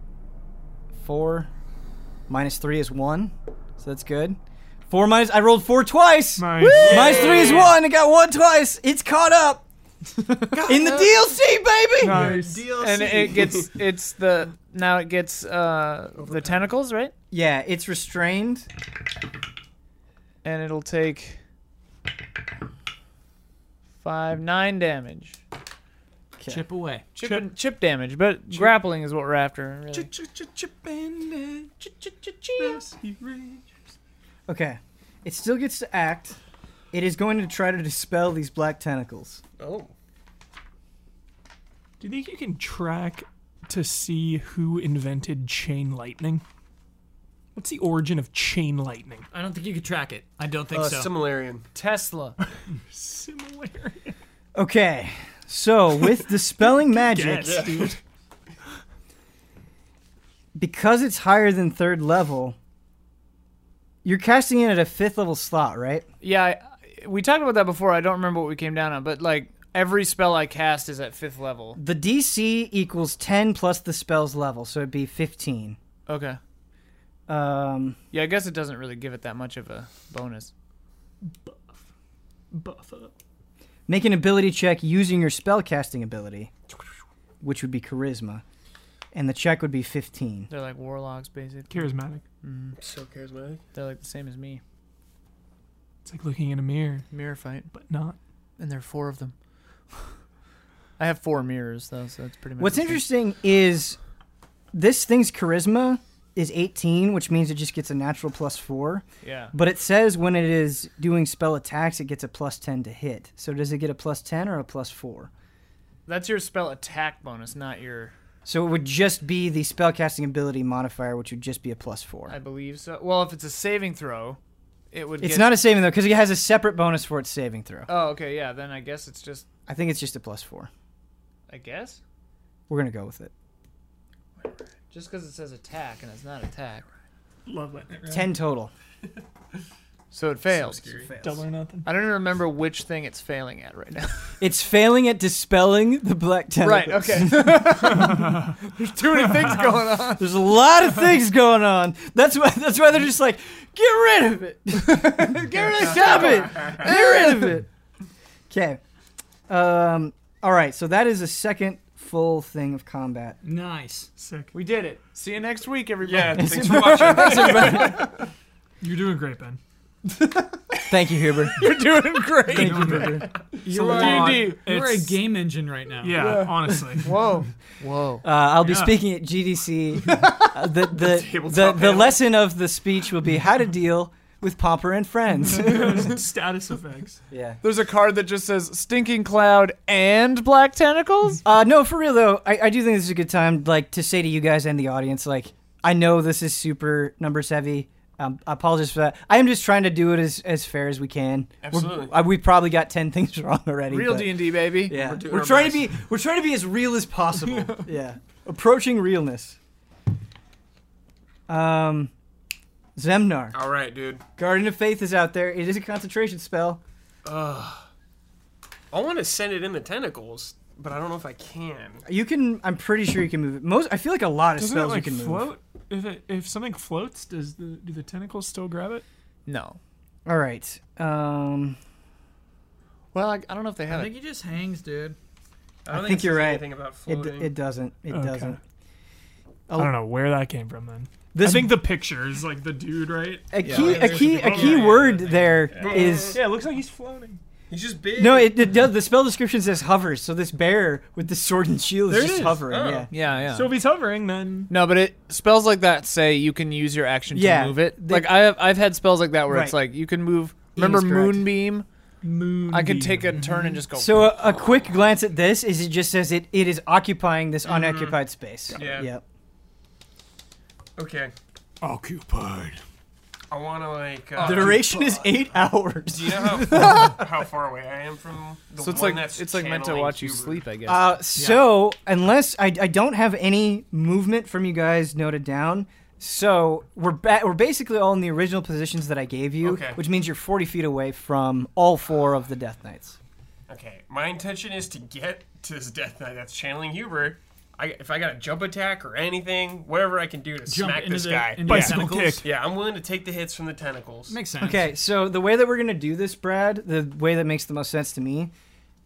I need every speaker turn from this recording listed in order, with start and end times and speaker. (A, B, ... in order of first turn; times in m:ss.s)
0:01.0-0:01.5 A
0:02.3-0:09.6 A
0:06.4-0:07.7 B
0:06.5-0:07.6 C
0:06.7-0:07.8 D
0:10.5-0:11.3 D
0:10.5-0:12.4 A
0:12.0-0:12.7 B
0:12.0-0:13.7 D
0:12.6-0:17.1 C
0:16.2-0:16.6 D
0:17.3-0:18.7 A
0:20.4-0:21.4 C
0:24.0-0:25.4 C
0:26.4-0:26.6 A
0:26.5-0:27.1 E
0:27.1-0:30.1 C
0:29.9-0:33.7 D
0:34.5-0:36.4 A
0:36.9-0:39.4 A
0:39.6-0:39.9 D
0:42.0-0:46.4 B
0:47.5-0:49.3 B
0:49.3-0:51.1 E
0:50.7-0:51.6 D
0:51.8-0:52.4 C
0:52.9-0:54.1 B
0:54.5-0:57.7 A
0:56.9-0:58.0 B
0:57.4-0:57.9 D
1:00.5-1:02.6 A
1:04.0-1:06.1 A
1:06.2-1:11.8 C
1:11.8-1:15.8 A
1:16.1-1:16.4 C
1:17.3-1:18.0 A
1:18.1-1:20.5 C
1:21.3-1:21.8 B
1:22.5-1:23.1 B
1:23.9-1:26.5 A
1:27.4-1:28.4 A
1:29.1-1:30.5 A
1:30.5-1:31.9 C
1:31.7-1:32.2 B
1:32.4-1:32.8 C
1:32.8-1:33.6 D
1:33.7-1:34.6 C
1:36.0-1:37.1 B
1:37.1-1:37.7 C
1:37.7-1:38.2 B
1:38.6-1:39.4 C
1:41.0-1:43.0 C
1:42.6-1:44.0 A
1:44.7-1:55.3 A
1:49.2-1:49.5 C
1:56.1-1:58.1 C
1:58.4-2:02.4 A
2:02.3-2:04.4 C
2:04.9-2:05.6 C
2:05.2-2:07.9 A
2:07.9-2:09.4 C
2:09.7-2:10.7 A
2:11.5-2:12.0 C
2:12.7-2:13.3 A
2:14.4-2:16.8 C
2:17.4-2:18.3 B
2:18.1-2:18.7 A
2:20.1-2:20.9 C
2:20.5-2:21.2 D
2:21.1-2:21.4 A
2:21.2-2:21.9 B
2:21.8-2:24.3 C
2:24.4-2:28.2 A
2:26.6-2:30.2 C
2:28.0-2:28.4 B
2:30.2-2:37.7 A
2:35.0-2:37.2 C
2:38.5-2:38.8 A
2:39.5-2:43.4 A
2:43.4-2:44.1 E
2:44.2-2:44.5 B
2:44.5-2:48.1 C
2:46.0-2:48.2 D
2:46.3-2:48.1 A
2:48.8-2:49.6 B
2:50.8-2:51.7 A
2:51.6-2:54.7 C
2:52.5-2:53.3 A
2:52.5-2:55.2 B
2:53.7-2:56.4 E
2:56.0-2:57.4 B
2:56.1-2:58.2 C
2:58.2-3:06.2 A
2:58.6-2:59.0 B
3:00.9-3:02.2 D
3:05.6-3:07.2 B
3:07.3-3:07.6 A
3:07.6-3:11.4 C
3:11.4-3:29.6 A
3:21.6-3:22.2 D
3:23.9-3:25.0 C
3:24.9-3:25.9 D
3:31.5-3:32.1 A
3:33.0-3:33.6 A
3:33.5-3:34.2 D
3:34.4-3:36.8 A
3:37.2-3:37.9 D
3:38.9-3:42.0 D
3:42.1-3:45.5 A
3:44.6-3:49.0 B
3:49.4-3:49.8 C
3:50.2-3:51.8 A
3:53.1-3:54.1 C
3:53.9-3:55.2 E
3:55.8-3:57.5 D
3:55.9-3:58.6 A
3:58.1-3:58.6 B
3:59.7-4:07.4 B
4:01.4-4:01.8 A
4:03.5-4:06.4 A
4:03.6-4:04.2 C
4:03.9-4:05.3 E
4:05.8-4:06.4 D
4:07.7-4:08.6 D
4:08.2-4:13.1 A
4:12.1-4:12.7 B
4:12.6-4:13.1 D
4:13.1-4:13.7 C
4:13.4-4:14.7 B
4:14.7-4:21.8 C
4:17.3-4:18.4 A
4:19.5-4:19.8 A
4:20.8-4:21.5 A
4:22.2-4:23.8 B
4:22.7-4:24.3 C
4:23.9-4:29.2 A
4:27.6-4:28.2 D
4:28.7-4:29.0 B
4:28.8-4:29.1 D
4:31.0-4:31.3 D
4:31.8-4:32.8 E
4:33.5-4:35.4 D
4:34.4-4:34.9 C
4:34.4-4:37.3 A
4:36.1-4:40.6 D
4:38.8-4:41.2 C
4:40.8-4:53.2 A
4:41.4-4:41.6 E
4:49.6-4:50.0 D
4:53.7-5:04.4 D
5:00.7-5:02.4 E
5:01.6-5:02.4 B
5:04.3-5:04.9 E
5:04.6-5:08.5 A